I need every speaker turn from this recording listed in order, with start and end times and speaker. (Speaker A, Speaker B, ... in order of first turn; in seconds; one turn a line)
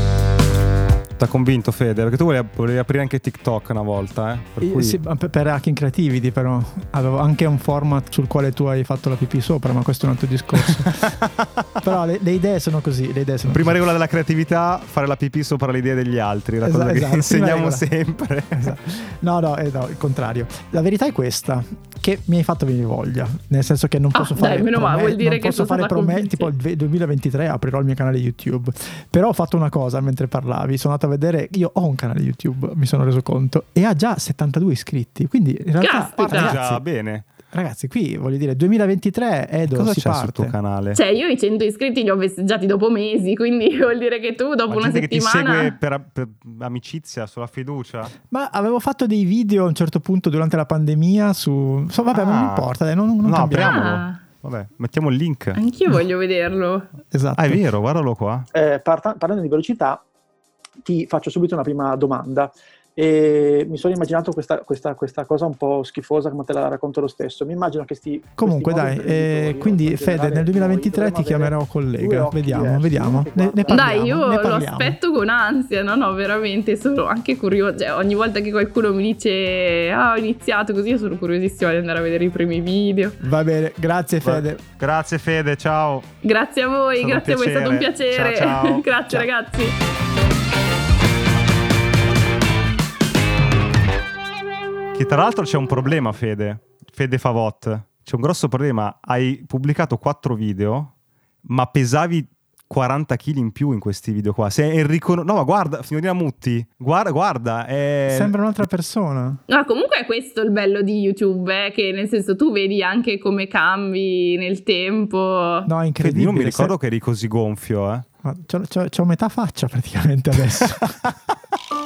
Speaker A: 1.2-5.0
Speaker B: 4.6-11.0
Speaker A: 10.6-11.9
Speaker B: 11.8-13.8
Speaker A: 13.5-18.8
Speaker B: 16.6-17.9
Speaker B: 18.6-36.9
Speaker C: 24.1-26.5
Speaker C: 35.8-36.6
Speaker A: 36.2-37.2
Speaker B: 37.5-40.5
Speaker A: 39.7-41.0
Speaker C: 40.9-45.8
Speaker A: 44.7-48.1
Speaker B: 48.2-53.9
Speaker A: 52.1-52.7
Speaker A: 53.2-55.6
Speaker C: 53.6-54.2
Speaker C: 55.6-56.9
Speaker B: 57.1-57.6
Speaker A: 57.4-58.5
Speaker D: 58.5-60.0
Speaker D: 60.8-74.0
Speaker B: 68.4-75.0
Speaker C: 73.7-83.2
Speaker B: 83.2-84.6
Speaker A: 84.2-86.1
Speaker C: 86.2-89.7
Speaker A: 87.0-89.1
Speaker A: 95.0-100.9
Speaker A: 101.5-108.3
Speaker B: 108.1-109.4
Speaker C: 109.5-115.7
Speaker B: 115.7-116.7
Speaker A: 116.0-118.1
Speaker B: 118.2-121.0
Speaker A: 120.6-121.1